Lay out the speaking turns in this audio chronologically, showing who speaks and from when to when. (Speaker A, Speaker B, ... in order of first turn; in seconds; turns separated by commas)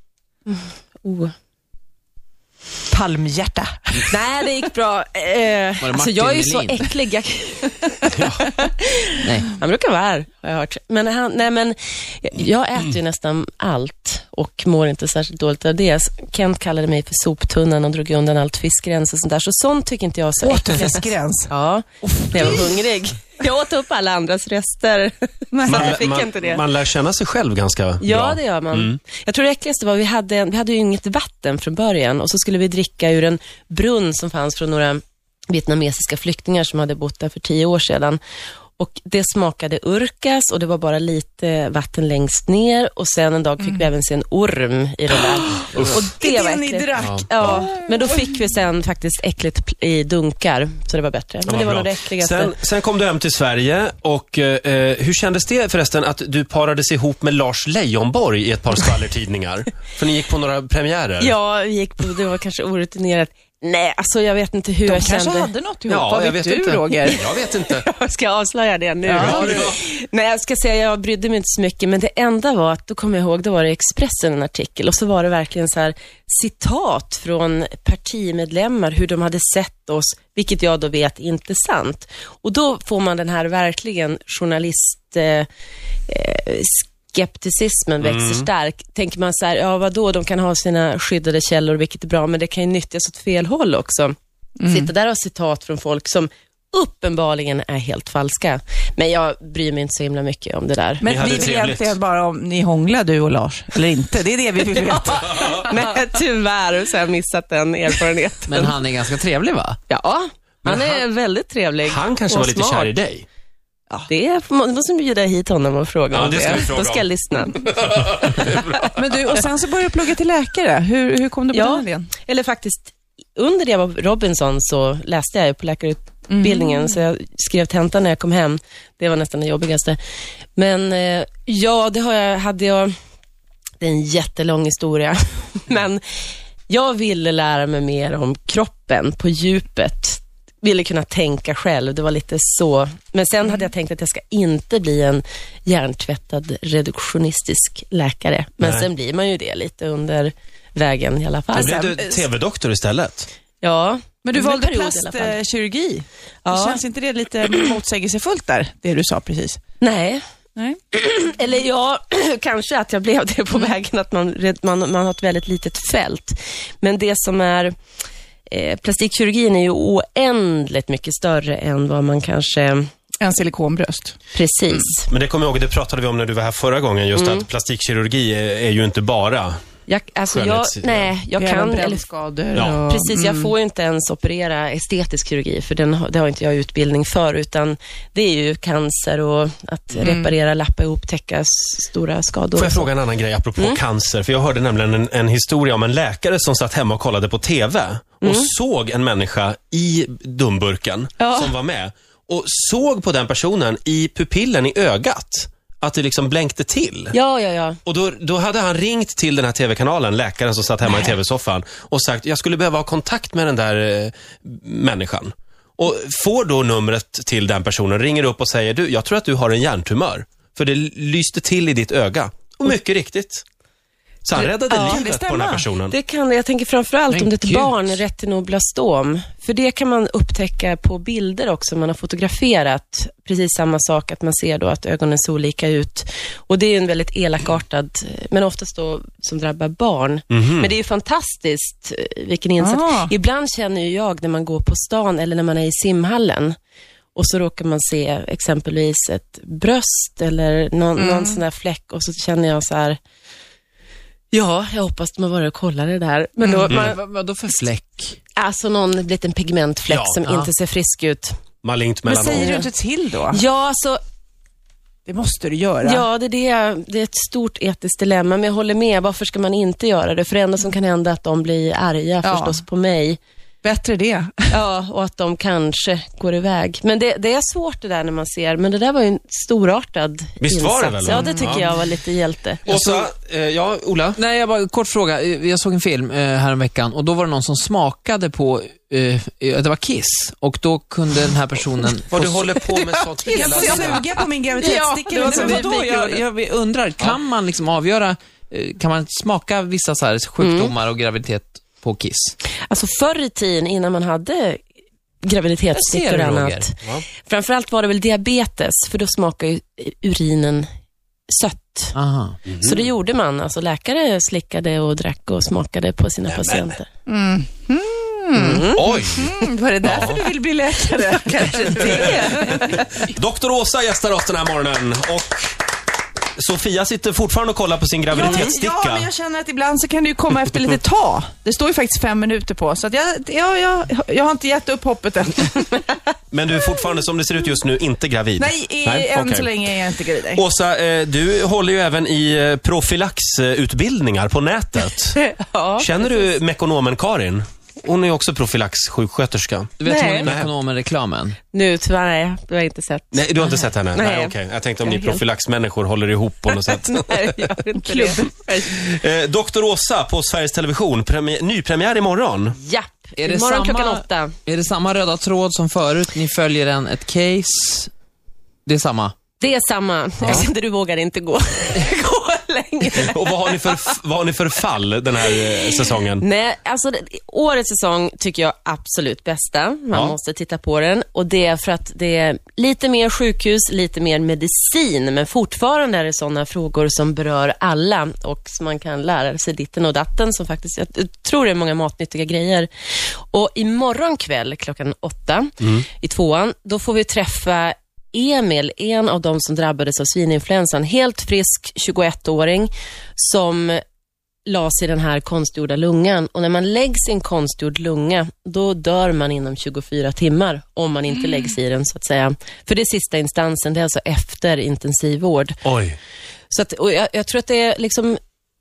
Speaker A: 0.5-1.3, Speaker B: 2.9-4.1, Speaker A: 4.1-26.6, Speaker C: 5.8-6.9, Speaker D: 8.1-8.4, Speaker C: 9.2-9.5, Speaker B: 20.4-21.5, Speaker B: 22.0-22.8, Speaker B: 25.5-26.0, Speaker D: 25.7-29.0, Speaker A: 28.0-35.0, Speaker A: 35.5-38.2, Speaker A: 38.8-52.5, Speaker B: 45.6-48.3, Speaker D: 45.7-46.1, Speaker D: 47.0-47.6, Speaker D: 51.5-61.3, Speaker A: 61.2-65.5, Speaker B: 64.8-67.2, Speaker D: 65.9-67.8, Speaker A: 67.0-85.5, Speaker B: 69.0-69.7, Speaker D: 69.2-69.8, Speaker A: 86.1-94.1, Speaker D: 88.0-88.5, Speaker B: 94.6-94.9, Speaker A: 94.7-101.0, Speaker B: 101.0-105.5, Speaker D: 101.0-102.0, Speaker A: 105.0-108.7, Speaker C: 108.5-109.8, Speaker A: 109.9-112.9, Speaker D: 110.6-111.0, Speaker D: 111.8-113.2, Speaker A: 114.1-118.6, Speaker D: 116.1-117.1, Speaker D: 117.6-118.8, Speaker B: 118.9-122.1, Speaker A: 121.5-130.0, Speaker B: 126.3-127.0, Speaker A: 130.6-132.9, Speaker A: 133.8-136.0, Speaker A: 136.7-152.0, Speaker D: 151.5-153.3, Speaker B: 151.6-152.2, Speaker A: 153.6-155.3, Speaker B: 154.2-159.6, Speaker A: 156.4-156.8, Speaker A: 159.8-160.2, Speaker A: 160.9-167.7, Speaker A: 168.5-172.9, Speaker B: 173.2-174.2, Speaker A: 174.3-175.1, Speaker D: 174.8-179.6, Speaker A: 177.1-177.4, Speaker A: 179.9-182.0, Speaker D: 180.3-181.1, Speaker B: 181.4-183.5, Speaker D: 182.5-182.8, Speaker A: 182.9-192.9, Speaker B: 190.0-190.3, Speaker D: 192.6-207.1, Speaker A: 198.2-198.5, Speaker A: 201.2-201.5, Speaker A: 207.1-207.8, Speaker D: 207.8-223.4, Speaker D: 224.2-225.9, Speaker B: 224.3-225.7, Speaker A: 224.7-225.0, Speaker A: 225.9-246.5, Speaker C: 227.1-228.0, Speaker D: 240.3-240.7, Speaker B: 242.6-243.1, Speaker A: 247.2-253.0, Speaker B: 250.9-251.4, Speaker A: 254.3-257.0, Speaker C: 256.7-258.2, Speaker A: 258.4-261.4, Speaker D: 259.9-260.2, Speaker C: 260.2-260.5, Speaker D: 261.6-262.6, Speaker B: 262.1-263.4, Speaker A: 262.2-262.7, Speaker A: 263.3-264.0, Speaker B: 265.1-266.1, Speaker A: 265.8-273.2, Speaker B: 272.2-272.6, Speaker B: 273.6-274.6, Speaker A: 274.5-282.6, Speaker D: 280.4-281.7, Speaker B: 281.1-281.7, Speaker D: 282.6-284.2, Speaker C: 282.7-283.0, Speaker C: 284.1-292.6, Speaker D: 292.1-294.1, Speaker B: 293.2-296.1, Speaker C: 293.3-293.9, Speaker A: 294.6-296.2, Speaker C: 294.6-302.4, Speaker A: 300.4-300.7, Speaker A: 302.7-304.6, Speaker A: 305.2-310.6, Speaker C: 305.7-306.6, Speaker A: 311.3-311.9, Speaker C: 311.9-312.4, Speaker D: 312.5-312.8, Speaker A: 312.5-316.9, Speaker D: 316.3-316.8, Speaker B: 317.1-322.9, Speaker A: 318.3-318.8, Speaker D: 318.8-319.3, Speaker D: 319.8-320.2, Speaker A: 321.7-322.1, Speaker D: 321.9-325.6, Speaker D: 326.4-329.1, Speaker B: 328.1-335.8, Speaker D: 336.3-339.5, Speaker B: 338.4-340.4, Speaker D: 340.3-345.2, Speaker A: 345.1-346.3, Speaker D: 345.8-350.5, Speaker C: 349.8-351.4, Speaker A: 349.8-350.3, Speaker A: 351.5-355.2, Speaker D: 353.1-357.4, Speaker A: 356.6-358.9, Speaker B: 357.8-358.2, Speaker D: 358.7-362.6, Speaker A: 362.6-364.3, Speaker C: 363.2-367.9, Speaker C: 368.6-369.1, Speaker A: 369.4-373.5, Speaker D: 373.0-376.2, Speaker A: 376.2-392.7, Speaker A: 393.3-403.8, Speaker A: 404.4-415.6, Speaker D: 415.6-416.0, Speaker A: 416.5-418.2